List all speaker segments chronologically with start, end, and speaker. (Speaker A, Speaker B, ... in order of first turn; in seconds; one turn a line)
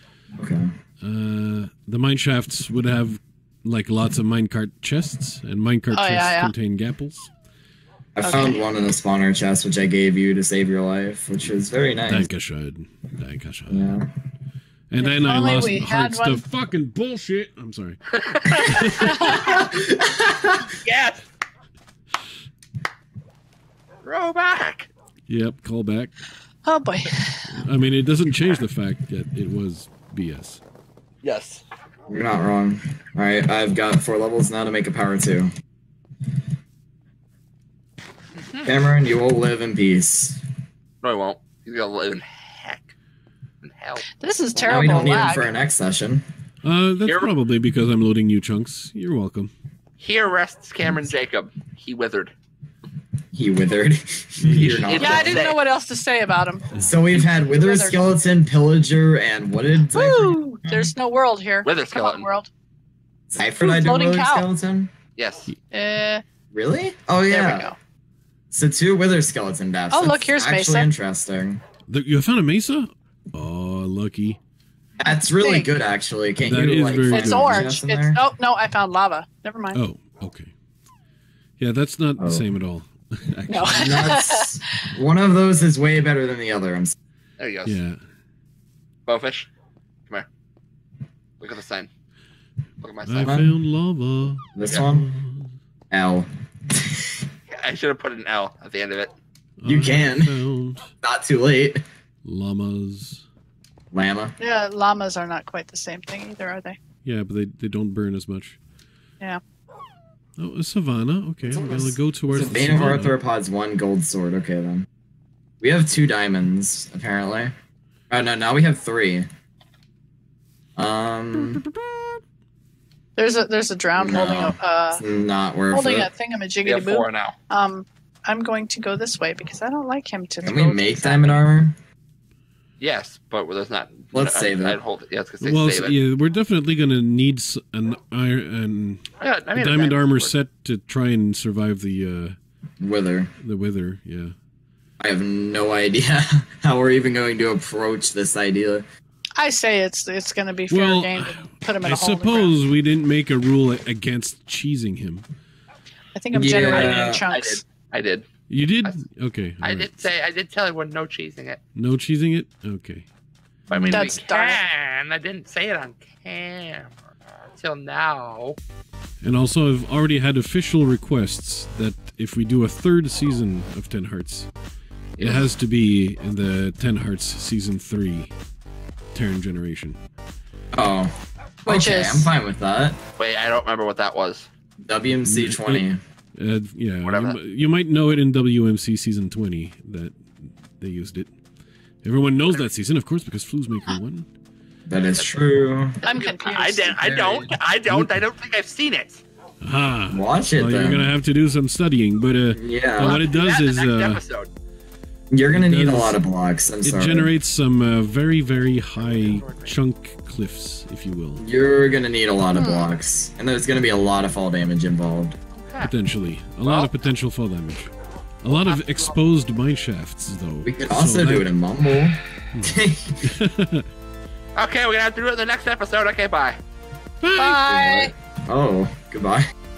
Speaker A: 0.4-0.7
Speaker B: 1.0-7.3
Speaker C: 5.9-6.5
Speaker A: 8.2-12.3
Speaker C: 8.2-8.6
Speaker B: 12.1-14.0
Speaker A: 13.7-14.1
Speaker B: 14.9-18.0
Speaker C: 15.0-16.4
Speaker D: 18.2-19.5
Speaker B: 18.6-19.2
Speaker A: 19.4-20.6
Speaker D: 20.8-21.2
Speaker D: 24.0-24.9
Speaker B: 25.3-26.1
Speaker C: 26.6-27.5
Speaker B: 27.5-30.6
Speaker D: 31.2-31.6
Speaker A: 32.1-35.5
Speaker D: 38.4-38.7
Speaker A: 38.6-40.4
Speaker D: 41.0-42.9
Speaker D: 43.6-44.1
Speaker C: 44.2-45.5
Speaker A: 44.6-46.2
Speaker D: 44.6-45.1
Speaker B: 46.6-49.5
Speaker D: 47.0-47.3
Speaker D: 50.0-52.3
Speaker A: 53.3-55.5
Speaker D: 54.5-55.6
Speaker C: 55.0-58.1
Speaker A: 56.7-60.9
Speaker C: 59.9-62.5
Speaker D: 61.6-62.3
Speaker A: 63.3-64.9
Speaker C: 63.6-64.5
Speaker D: 65.2-65.5
Speaker C: 65.7-66.2
Speaker A: 66.5-67.7
Speaker C: 67.3-67.8
Speaker A: 68.5-71.6
Speaker C: 69.9-70.9
Speaker B: 71.9-74.4
Speaker A: 75.0-78.2
Speaker C: 75.0-75.7
Speaker B: 76.4-77.7
Speaker C: 77.1-79.8
Speaker B: 79.7-80.5
Speaker B: 81.6-84.1
Speaker A: 82.2-82.5
Speaker C: 83.5-84.5
Speaker A: 83.7-86.9
Speaker D: 87.4-87.8
Speaker B: 87.6-88.0
Speaker D: 89.1-89.5
Speaker D: 91.4-91.9
Speaker D: 92.8-93.3
Speaker B: 93.0-95.5
Speaker A: 93.2-93.6
Speaker A: 94.5-95.0
Speaker A: 95.9-97.2
Speaker D: 97.5-99.1
Speaker B: 99.6-100.9
Speaker A: 99.6-100.4
Speaker A: 101.0-101.8
Speaker B: 102.2-103.2
Speaker A: 103.9-104.3
Speaker C: 104.4-106.8
Speaker B: 107.0-108.6
Speaker B: 110.4-113.2
Speaker A: 111.6-114.9
Speaker A: 115.6-117.5
Speaker A: 118.1-119.3
Speaker A: 120.8-121.6
Speaker C: 123.2-125.0
Speaker A: 124.0-126.1
Speaker C: 125.7-131.4
Speaker D: 126.6-127.3
Speaker A: 130.4-131.8
Speaker D: 132.8-136.0
Speaker A: 134.1-134.8
Speaker B: 135.4-142.3
Speaker D: 139.2-140.3
Speaker A: 142.8-143.3
Speaker B: 143.4-144.3
Speaker A: 145.0-148.8
Speaker C: 149.4-152.5
Speaker B: 150.7-155.2
Speaker C: 156.1-157.6
Speaker A: 156.3-157.2
Speaker D: 156.7-158.3
Speaker B: 158.5-160.0
Speaker D: 159.6-161.6
Speaker B: 161.8-163.1
Speaker A: 163.7-164.1
Speaker D: 163.7-167.0
Speaker C: 163.9-164.6
Speaker D: 167.5-168.6
Speaker B: 169.2-174.5
Speaker D: 175.2-175.5
Speaker B: 175.2-178.3
Speaker B: 179.1-180.0
Speaker A: 180.7-181.1
Speaker C: 181.7-182.3
Speaker A: 181.7-183.0
Speaker D: 183.2-184.5
Speaker A: 184.8-186.0
Speaker B: 185.2-185.8
Speaker B: 186.4-191.3
Speaker D: 187.0-187.4
Speaker B: 192.0-194.3
Speaker A: 194.9-196.0
Speaker D: 196.0-199.2
Speaker C: 196.0-197.0
Speaker A: 197.0-197.5
Speaker B: 197.9-198.1
Speaker B: 199.6-204.2
Speaker A: 200.1-201.1
Speaker A: 202.5-203.2
Speaker D: 203.0-204.5
Speaker A: 205.3-207.3
Speaker B: 205.5-206.2
Speaker B: 206.8-211.4
Speaker D: 209.0-209.8
Speaker A: 211.4-215.4
Speaker C: 212.5-212.9
Speaker D: 215.6-215.9
Speaker B: 215.8-221.5
Speaker D: 216.6-216.9
Speaker D: 218.5-219.1
Speaker A: 220.6-223.2
Speaker B: 222.5-223.8
Speaker D: 224.6-226.6
Speaker B: 227.2-227.6
Speaker C: 227.3-228.1
Speaker A: 227.6-229.5